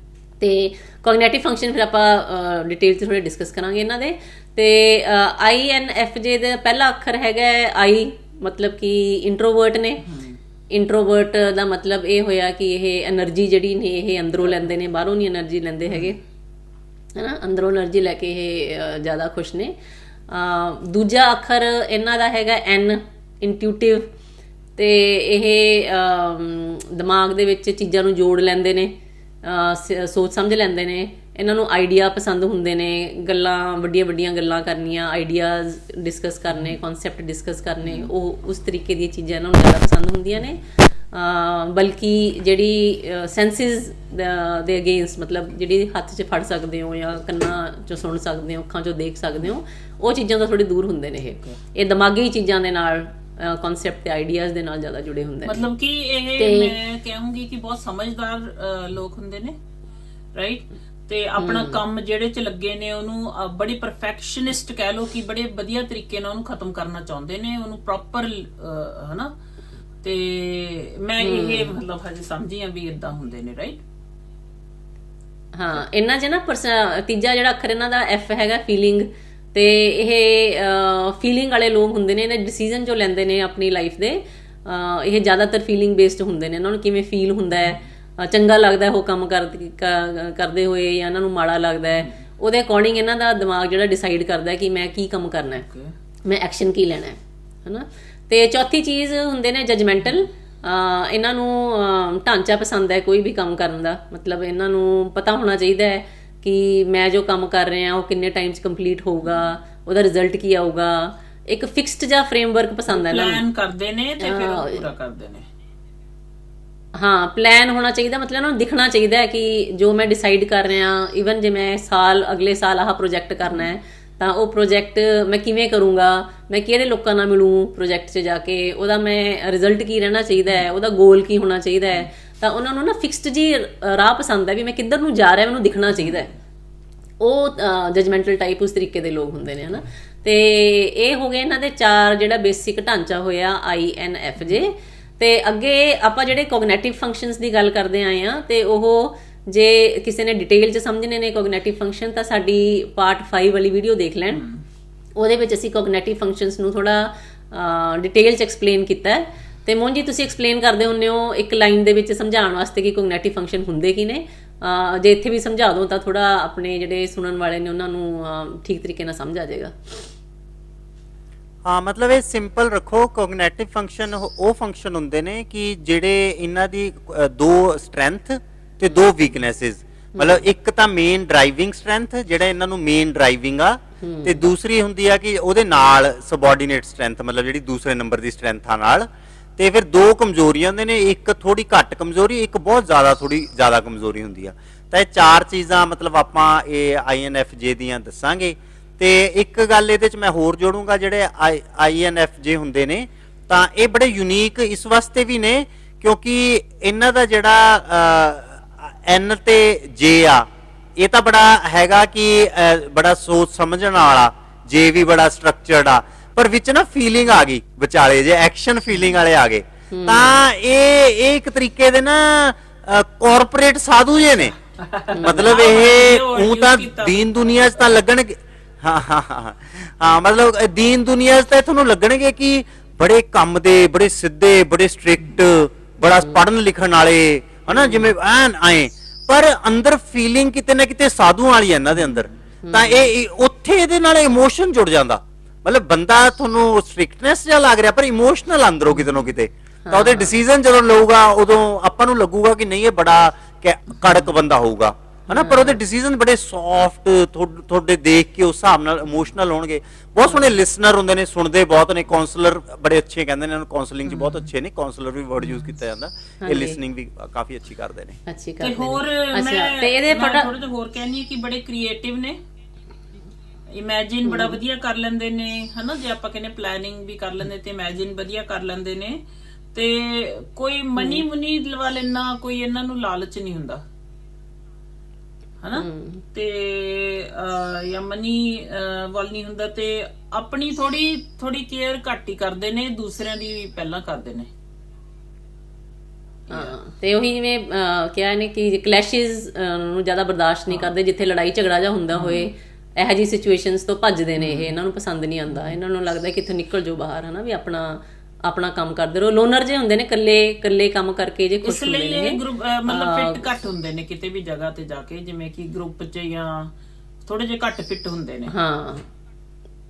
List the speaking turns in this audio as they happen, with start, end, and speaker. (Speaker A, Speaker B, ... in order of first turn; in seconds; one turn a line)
Speaker A: 0.4-10.1
Speaker B: 10.0-10.4
Speaker A: 10.7-16.2
Speaker A: 17.1-19.8
Speaker A: 20.3-24.1
Speaker A: 24.8-40.6
Speaker B: 37.8-38.1
Speaker A: 41.1-55.6
Speaker B: 55.4-59.5
Speaker A: 56.4-56.7
Speaker B: 60.3-69.3
Speaker A: 61.4-61.8
Speaker B: 70.0-73.8
Speaker A: 71.2-71.8
Speaker A: 75.5-95.6
Speaker B: 95.7-95.9
Speaker A: 96.2-113.4
Speaker B: 112.9-115.5
Speaker A: 114.2-114.8
Speaker A: 116.9-136.3
Speaker A: 137.2-154.4
Speaker B: 154.3-154.6
Speaker A: 155.2-170.0
Speaker C: 171.6-224.5
Speaker A: 180.1-180.4
Speaker A: 184.0-184.5
Speaker A: 219.9-220.4
Speaker B: 224.8-227.9
Speaker A: 225.1-225.5
Speaker C: 225.2-268.2
Speaker A: 236.1-236.4
Speaker A: 237.7-238.1
Speaker A: 242.6-243.1
Speaker A: 249.8-250.4
Speaker A: 255.3-255.8
Speaker A: 266.4-266.8
Speaker A: 268.3-270.5
Speaker B: 268.6-272.4
Speaker B: 273.7-279.2
Speaker A: 274.2-274.6
Speaker B: 279.7-283.8
Speaker A: 281.0-281.2
Speaker B: 285.6-294.5
Speaker A: 285.7-286.2
Speaker A: 296.5-313.4
Speaker B: 302.1-302.5
Speaker B: 304.4-304.7
Speaker B: 311.6-316.7
Speaker B: 317.3-318.5
Speaker A: 318.5-319.1